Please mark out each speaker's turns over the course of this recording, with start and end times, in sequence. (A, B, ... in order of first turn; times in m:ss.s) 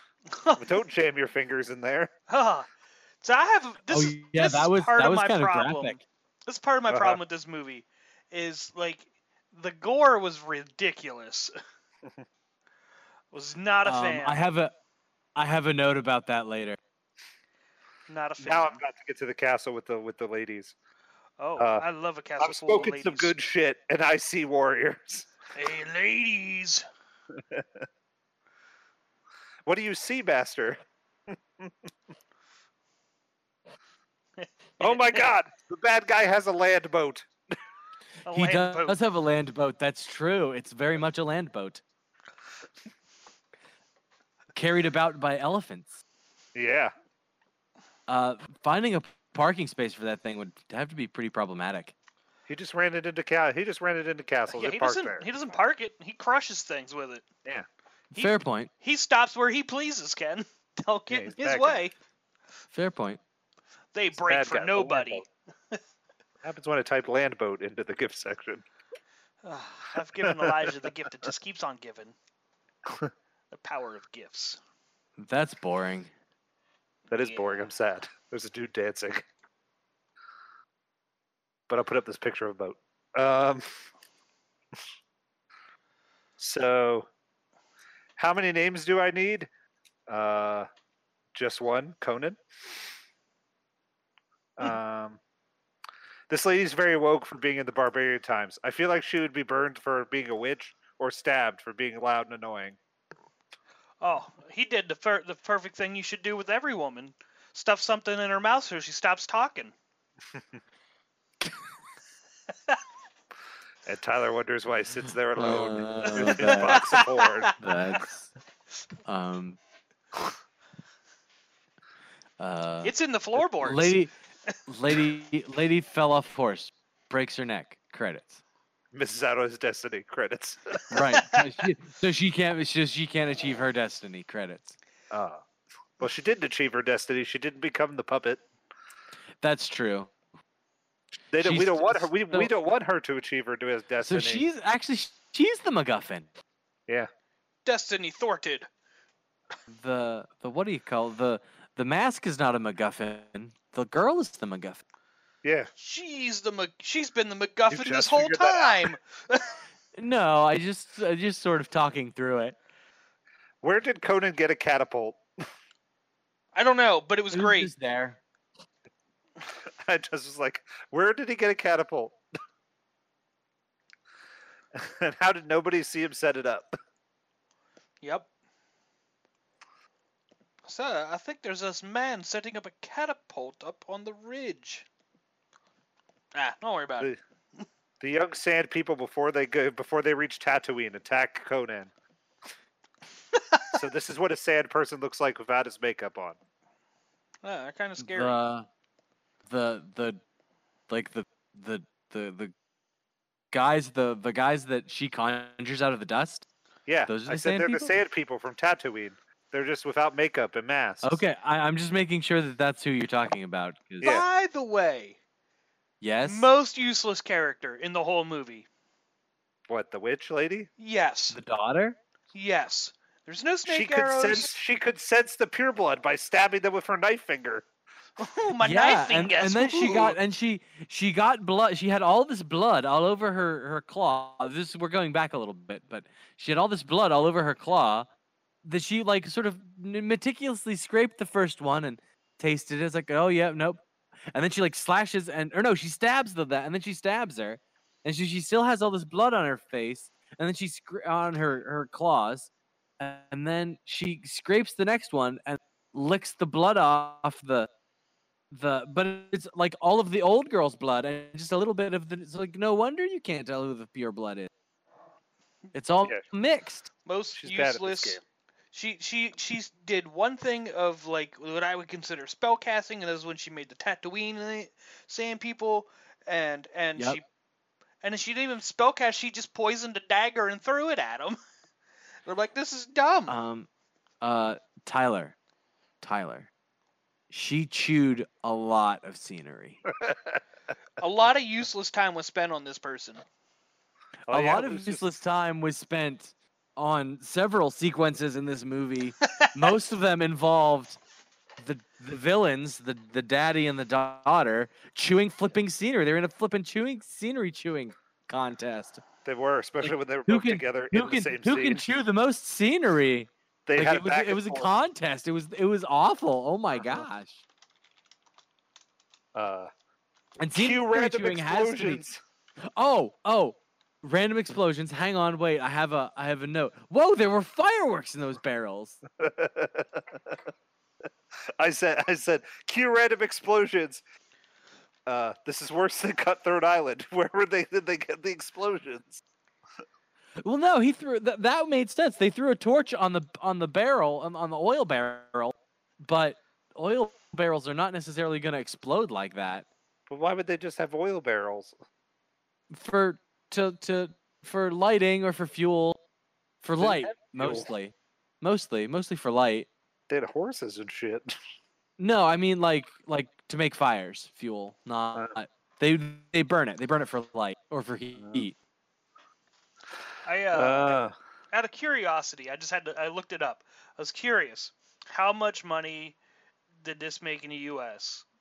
0:00.3-0:00.7 A
0:00.6-0:02.1 B
0:02.3-0:02.7 A
0:03.2-0:11.5 A
0:03.9-0:06.0 C
0:06.9-0:07.2 B
0:13.3-0:14.4 A
0:13.8-0:14.7 C
0:15.4-0:16.8 C
0:18.1-0:18.8 A
0:18.4-0:20.7 B
0:21.4-0:23.3 A
0:21.6-0:21.8 B
0:22.4-0:25.3 B
0:25.5-0:26.8 A
0:27.4-0:27.8 B
0:29.7-0:31.7 B
0:34.4-0:35.2 A
0:34.8-0:37.3 B
0:38.3-0:39.0 A
0:38.3-0:41.8 C
0:44.6-0:46.0 C
0:46.6-0:46.9 B
0:48.1-0:51.9 C
0:52.5-0:55.6 B
0:54.5-0:57.2 A
0:58.1-1:01.9 A
0:58.1-0:58.7 C
1:01.1-1:01.8 B
1:02.7-1:03.2 C
1:03.9-1:05.8 A
1:04.2-1:05.2 B
1:06.4-1:08.6 B
1:09.4-1:12.2 A
1:10.2-1:10.8 B
1:13.5-1:14.6 A
1:15.2-1:16.1 C
1:17.1-1:17.7 A
1:17.1-1:19.3 B
1:21.7-1:23.6 B
1:26.4-1:27.1 B
1:28.2-1:29.5 B
1:30.1-1:30.7 B
1:31.3-1:32.4 B
1:34.6-1:35.2 B
1:36.3-1:42.8 B
1:44.0-1:49.7 A
1:53.9-1:57.5 B
1:55.4-1:56.8 C
1:56.1-1:57.8 A
1:57.6-1:58.3 C
1:59.1-1:59.6 C
2:02.4-2:04.1 C
2:02.8-2:04.0 A
2:04.7-2:08.4 C
2:08.9-2:11.0 B
2:10.9-2:14.8 C
2:11.2-2:11.5 A
2:15.1-2:15.4 B
2:16.0-2:18.4 B
2:19.4-2:20.1 C
2:21.3-2:24.4 B
2:21.4-2:22.5 C
2:24.0-2:26.3 C
2:27.6-2:28.7 A
2:29.7-2:34.8 C
2:35.4-2:35.7 B
2:35.8-2:39.6 A
2:37.7-2:38.9 B
2:40.0-2:42.6 C
2:43.6-2:45.2 B
2:46.5-2:47.7 A
2:47.3-2:48.2 C
2:49.8-2:52.2 B
2:54.7-2:56.7 B
2:58.0-2:58.3 A
3:00.7-3:04.9 A
3:06.3-3:07.1 A
3:08.0-3:11.9 B
3:13.4-3:13.6 A
3:13.7-3:16.4 B
3:17.4-3:18.4 A
3:18.0-3:18.7 C
3:19.5-3:20.2 C
3:20.9-3:22.5 C
3:23.5-3:26.5 C
3:26.9-3:31.2 B
3:27.1-3:27.9 C
3:31.0-3:34.2 C
3:34.0-3:35.2 A
3:36.0-3:36.5 C
3:36.2-3:38.7 A
3:39.7-3:40.7 B
3:40.8-3:41.4 A
3:41.3-3:42.0 C
3:42.3-3:44.5 A
3:43.7-3:47.7 B
3:48.2-3:50.2 A
3:48.6-3:58.1 C
3:58.6-4:17.7 C
4:18.5-4:24.5 C
4:25.7-4:26.9 C
4:27.1-4:28.2 A
4:27.3-4:28.2 B
4:28.7-4:37.2 A
4:38.0-4:41.4 A
4:42.3-4:43.4 A
4:43.3-4:43.7 C
4:44.2-4:45.4 C
4:46.0-4:46.5 C
4:47.3-4:49.8 C
4:50.0-4:50.4 B
4:51.0-4:53.2 A
4:54.3-4:55.0 B
4:54.3-5:01.0 C
5:01.6-5:09.0 C
5:09.2-5:11.8 B
5:09.8-5:17.4 C
5:13.7-5:14.7 B
5:16.8-5:17.1 B
5:19.4-5:19.7 B
5:20.4-5:22.0 C
5:20.5-5:22.2 B
5:22.8-5:29.0 C
5:29.2-5:30.4 B
5:31.6-5:34.0 B
5:35.1-5:39.2 B
5:40.4-5:49.7 C
5:50.1-5:51.8 B
5:52.7-5:56.0 C
5:56.6-5:59.7 C
5:56.8-5:57.7 B
6:00.1-6:01.3 B
6:02.0-6:08.6 C
6:10.2-6:11.0 A
6:10.5-6:11.1 B
6:11.5-6:16.2 A
6:16.8-6:18.2 A